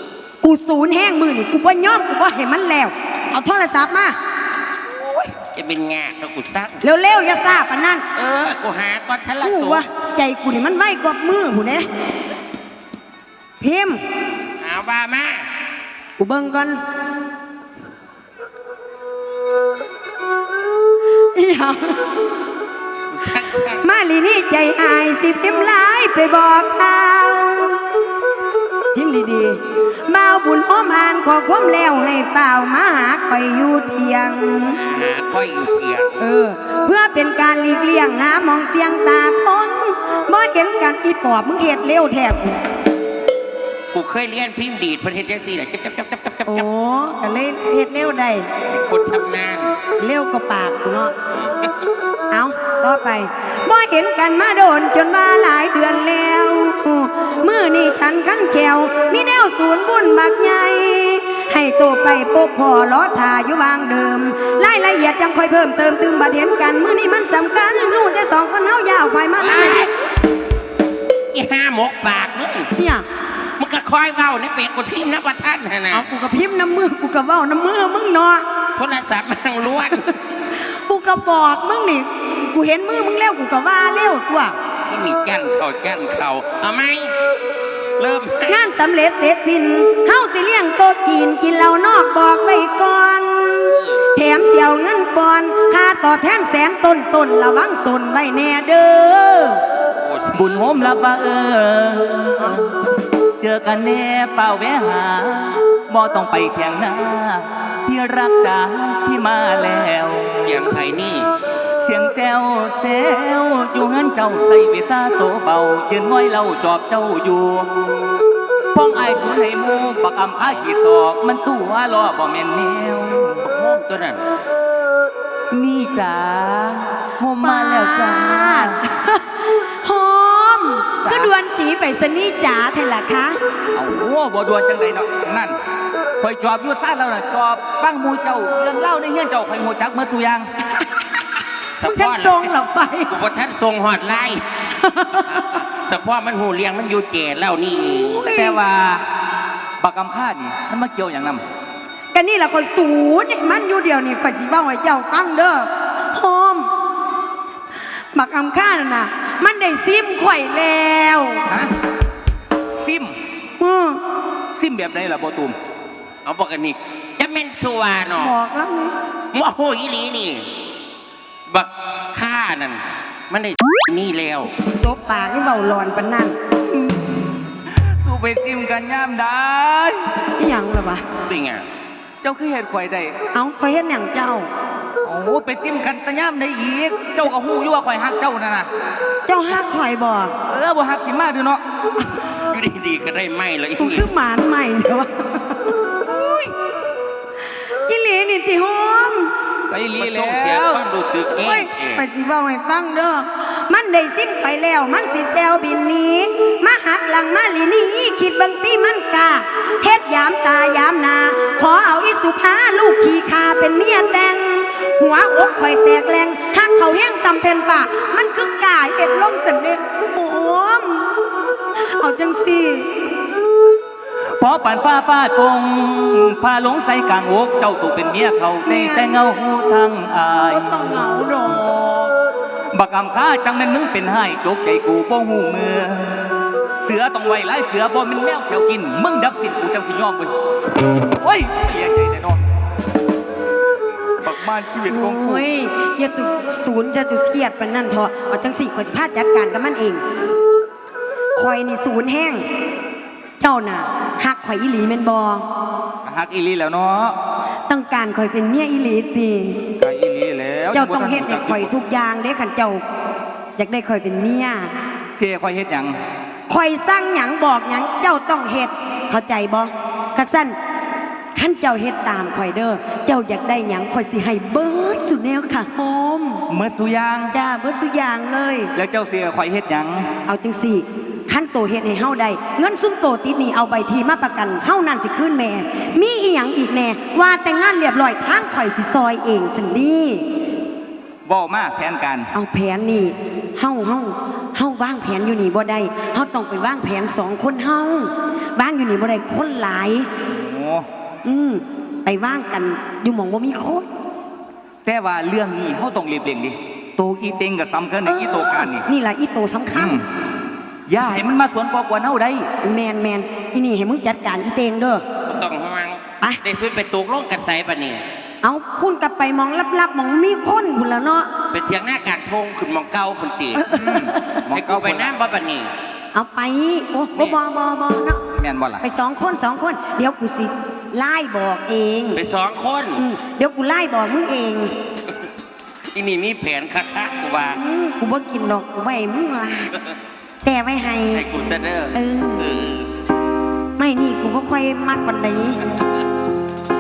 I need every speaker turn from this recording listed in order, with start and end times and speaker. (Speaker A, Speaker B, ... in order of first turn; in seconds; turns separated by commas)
Speaker A: 0.4-4.2, Speaker B: 5.0-6.8, Speaker A: 6.8-8.0, Speaker B: 8.1-9.9, Speaker A: 9.4-11.9, Speaker A: 13.6-14.0, Speaker B: 14.6-15.5, Speaker A: 16.2-16.8, Speaker A: 21.3-22.0, Speaker B: 23.1-23.9, Speaker A: 23.8-27.8, Speaker A: 28.9-34.8, Speaker B: 34.7-36.2, Speaker A: 36.2-42.6, Speaker B: 43.9-46.7, Speaker A: 46.5-48.5, Speaker B: 48.7-49.8, Speaker A: 50.0-51.1, Speaker B: 51.3-51.7, Speaker A: 52.3-69.9, Speaker B: 69.4-69.9, Speaker B: 71.3-72.7, Speaker A: 72.7-73.1, Speaker B: 73.6-76.1, Speaker A: 75.9-78.5, Speaker B: 78.8-80.1, Speaker A: 80.5-84.6, Speaker B: 84.9-87.1, Speaker B: 88.0-88.7, Speaker A: 88.4-99.6, Speaker B: 93.7-94.0, Speaker B: 100.0-100.6, Speaker C: 100.3-102.6, Speaker C: 103.4-110.2, Speaker B: 110.4-111.3, Speaker C: 111.8-117.7, Speaker C: 118.8-123.4, Speaker B: 123.4-124.2, Speaker C: 125.5-128.8, Speaker A: 127.4-133.4, Speaker C: 131.0-131.3, Speaker C: 133.7-135.6, Speaker C: 136.2-140.5, Speaker B: 141.8-142.5, Speaker A: 141.9-143.1, Speaker B: 143.1-144.4, Speaker A: 144.8-145.4, Speaker B: 145.3-148.4, Speaker A: 148.1-148.6, Speaker C: 148.2-149.0, Speaker C: 149.8-151.4, Speaker A: 152.1-156.7, Speaker A: 158.1-161.4, Speaker C: 162.7-163.1, Speaker A: 163.6-164.0, Speaker C: 164.5-165.6, Speaker B: 166.2-168.3, Speaker A: 168.1-168.9, Speaker B: 169.3-170.4, Speaker B: 171.5-174.5, Speaker A: 174.7-176.4, Speaker C: 177.7-180.0, Speaker A: 180.4-181.0, Speaker B: 181.2-181.7, Speaker C: 182.2-183.2, Speaker A: 183.3-184.5, Speaker C: 185.0-188.7, Speaker A: 189.3-190.3, Speaker C: 190.5-191.6, Speaker B: 192.2-194.1, Speaker A: 193.8-195.7, Speaker A: 197.8-199.3, Speaker C: 199.7-200.8, Speaker B: 200.0-202.1, Speaker A: 201.4-221.1, Speaker A: 221.8-222.9, Speaker C: 224.4-231.0, Speaker A: 228.7-229.2, Speaker A: 230.4-232.1, Speaker C: 232.7-236.2, Speaker C: 236.8-240.3, Speaker C: 241.2-242.4, Speaker C: 244.2-245.4, Speaker A: 244.8-250.0, Speaker A: 251.4-252.4, Speaker A: 253.4-255.4, Speaker C: 256.1-257.1, Speaker A: 257.7-259.6, Speaker C: 259.8-261.7, Speaker A: 260.7-262.8, Speaker A: 263.6-264.7, Speaker C: 265.1-266.0, Speaker A: 266.5-270.6, Speaker A: 271.4-276.4, Speaker C: 276.5-277.3, Speaker A: 277.3-278.7, Speaker C: 278.8-280.1, Speaker A: 280.3-290.3, Speaker C: 291.3-292.3, Speaker A: 292.3-300.1, Speaker C: 300.3-300.9, Speaker A: 301.2-303.9, Speaker C: 304.9-308.9, Speaker A: 308.1-310.0, Speaker C: 309.7-310.0, Speaker C: 310.9-312.5, Speaker A: 312.6-315.0, Speaker B: 315.3-318.0, Speaker A: 318.4-321.3, Speaker B: 321.5-323.7, Speaker A: 323.6-324.4, Speaker C: 323.7-325.1, Speaker B: 324.5-325.7, Speaker A: 326.1-328.2, Speaker B: 327.1-327.4, Speaker C: 328.3-328.8, Speaker A: 328.8-332.2, Speaker B: 332.1-333.0, Speaker A: 332.9-334.7, Speaker B: 335.9-337.6, Speaker A: 337.5-339.7, Speaker A: 340.4-341.2, Speaker B: 341.1-342.9, Speaker A: 341.9-342.5, Speaker A: 343.8-345.6